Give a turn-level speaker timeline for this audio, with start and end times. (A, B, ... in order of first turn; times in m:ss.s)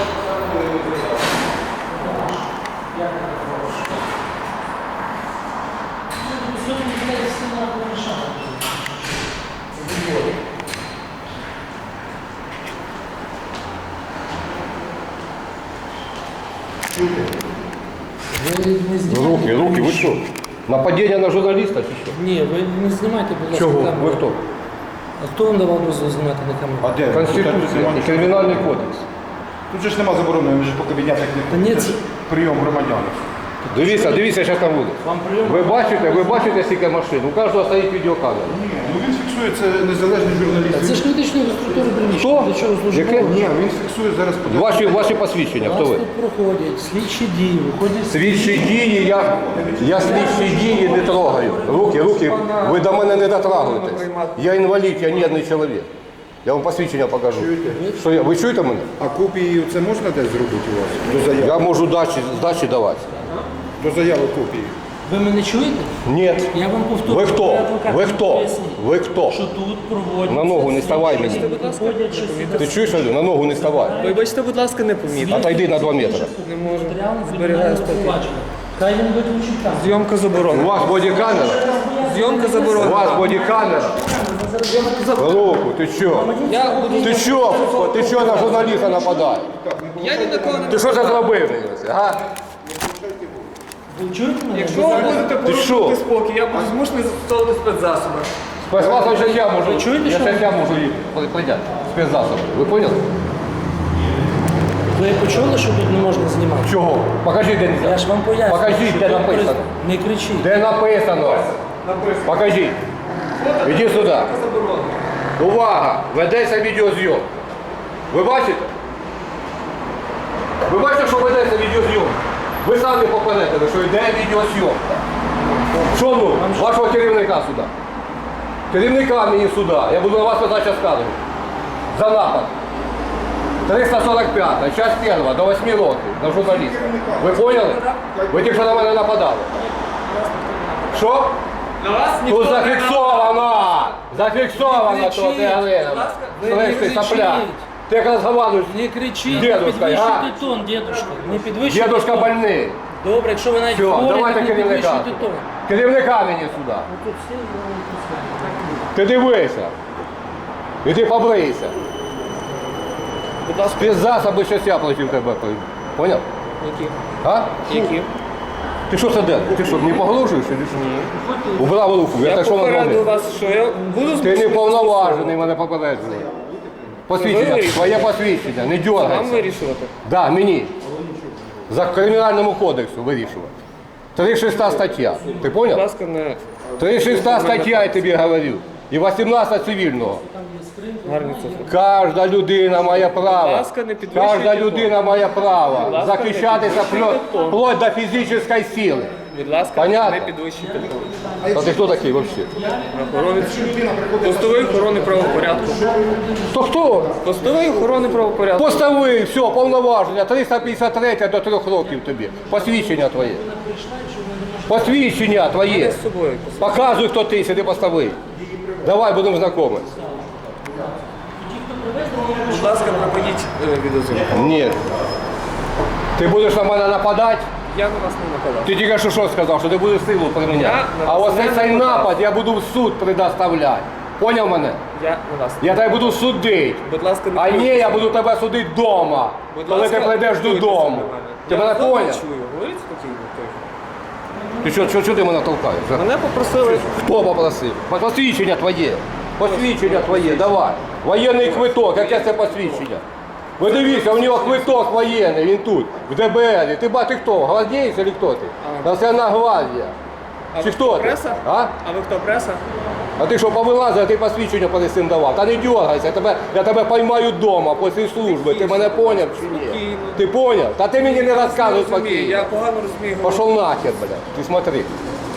0:00.3-0:00.9 A
0:01.9-0:04.0 B
0:06.2-0:09.2 B
0:18.3-0:20.2 B
0:19.1-0:22.2 C
0:22.1-0:24.2 B
0:23.5-0:24.4 C
0:25.2-0:26.9 B
0:26.8-0:28.7 D
0:27.1-0:29.0 C
0:29.7-0:33.3 D
0:31.5-0:32.0 B
0:33.6-0:36.7 B
0:33.7-0:38.6 C
0:38.5-0:41.1 D
0:40.7-0:43.3 B
0:42.1-0:43.3 C
0:43.2-0:45.2 D
0:44.5-0:46.0 C
0:45.6-0:48.7 B
0:48.1-0:55.9 C
0:49.5-0:50.2 D
0:50.0-0:52.3 B
0:52.1-0:54.4 A
0:56.4-0:58.9 C
0:57.3-0:57.8 D
0:57.7-0:58.0 B
0:59.0-1:01.6 D
1:01.4-1:03.1 C
1:03.8-1:04.8 D
1:05.0-1:05.9 B
1:06.0-1:09.4 C
1:06.5-1:14.2 B
1:10.3-1:11.4 C
1:11.0-1:12.8 A
1:12.6-1:14.0 C
1:14.0-1:15.5 A
1:15.0-1:20.0 B
1:15.3-1:16.3 C
1:16.4-1:18.2 A
1:19.7-1:20.8 A
1:20.5-1:21.6 C
1:20.8-1:28.9 B
1:22.0-1:23.3 A
1:22.8-1:24.0 C
1:24.7-1:25.4 A
1:25.2-1:26.3 C
1:26.5-1:28.7 A
1:27.0-1:29.5 C
1:28.6-1:31.0 D
1:30.0-1:31.3 A
1:30.7-1:32.2 C
1:32.6-1:33.6 D
1:33.9-1:35.3 B
1:34.5-1:38.3 A
1:34.9-1:35.3 D
1:35.4-1:36.0 C
1:38.6-1:43.0 C
1:38.8-1:39.1 D
1:39.5-1:40.7 B
1:44.9-1:46.7 B
1:46.6-1:49.7 C
1:47.8-1:50.5 B
1:50.4-1:51.6 C
1:51.3-1:52.3 A
1:52.2-1:52.8 C
1:53.4-1:55.0 A
1:53.6-1:54.3 C
1:55.4-1:57.3 C
1:58.1-1:58.7 C
2:00.7-2:05.0 C
2:05.9-2:07.7 C
2:06.3-2:06.7 B
2:08.7-2:11.2 C
2:11.9-2:12.5 C
2:13.7-2:19.5 C
2:16.3-2:17.4 D
2:17.6-2:18.0 A
2:18.1-2:18.8 D
2:20.1-2:21.0 A
2:20.9-2:21.4 C
2:21.8-2:24.0 A
2:22.2-2:30.3 C
2:24.5-2:25.7 B
2:25.7-2:26.4 A
2:26.4-2:27.7 B
2:28.7-2:32.4 B
2:30.3-2:31.6 A
2:31.7-2:32.8 C
2:33.0-2:35.5 B
2:33.7-2:36.9 C
2:36.8-2:38.9 B
2:38.9-2:39.7 C
2:40.8-2:41.8 C
2:43.4-2:44.1 A
2:43.7-2:46.2 C
2:46.6-2:47.0 A
2:47.2-2:47.9 C
2:47.7-2:48.1 A
2:48.9-2:50.8 C
2:50.7-2:51.1 A
2:51.2-2:51.6 B
2:51.6-2:53.0 C
2:52.2-2:55.4 A
2:54.2-2:56.3 C
2:57.1-2:59.5 C
2:57.1-2:59.9 A
3:00.0-3:00.7 C
3:01.7-3:03.5 C
3:04.2-3:05.8 C
3:05.3-3:08.2 A
3:06.8-3:10.2 C
3:10.2-3:11.8 B
3:11.0-3:11.7 A
3:11.7-3:19.2 C
3:13.1-3:15.0 A
3:15.8-3:17.6 A
3:19.3-3:21.2 A
3:19.8-3:20.3 C
3:20.6-3:23.8 B
3:21.4-3:21.8 D
3:21.5-3:22.5 C
3:22.9-3:25.8 A
3:23.4-3:26.2 D
3:24.6-3:26.6 B
3:26.5-3:27.2 C
3:27.2-3:28.9 A
3:27.4-3:28.1 D
3:28.6-3:33.4 C
3:32.3-3:35.5 B
3:34.7-3:36.0 C
3:35.6-3:37.0 A
3:36.6-3:38.2 C
3:38.8-3:39.9 C
3:41.4-3:43.1 B
3:42.4-3:44.4 A
3:44.3-3:44.8 C
3:46.2-3:47.5 C
3:47.7-3:48.8 A
3:48.6-3:54.8 C
3:50.5-3:52.2 A
3:54.9-3:56.2 A
3:55.6-4:02.2 C
3:56.8-3:58.1 A
3:59.5-4:03.6 A
4:04.6-4:06.0 C
4:05.9-4:07.0 A
4:06.6-4:13.0 C
4:09.4-4:10.6 A
4:11.4-4:12.9 A
4:13.6-4:19.9 C
4:13.6-4:14.9 A
4:18.6-4:18.9 A
4:20.5-4:22.6 A
4:20.6-4:21.7 C
4:23.2-4:32.5 C
4:28.2-4:30.2 A
4:30.9-4:33.6 A
4:33.2-4:34.9 C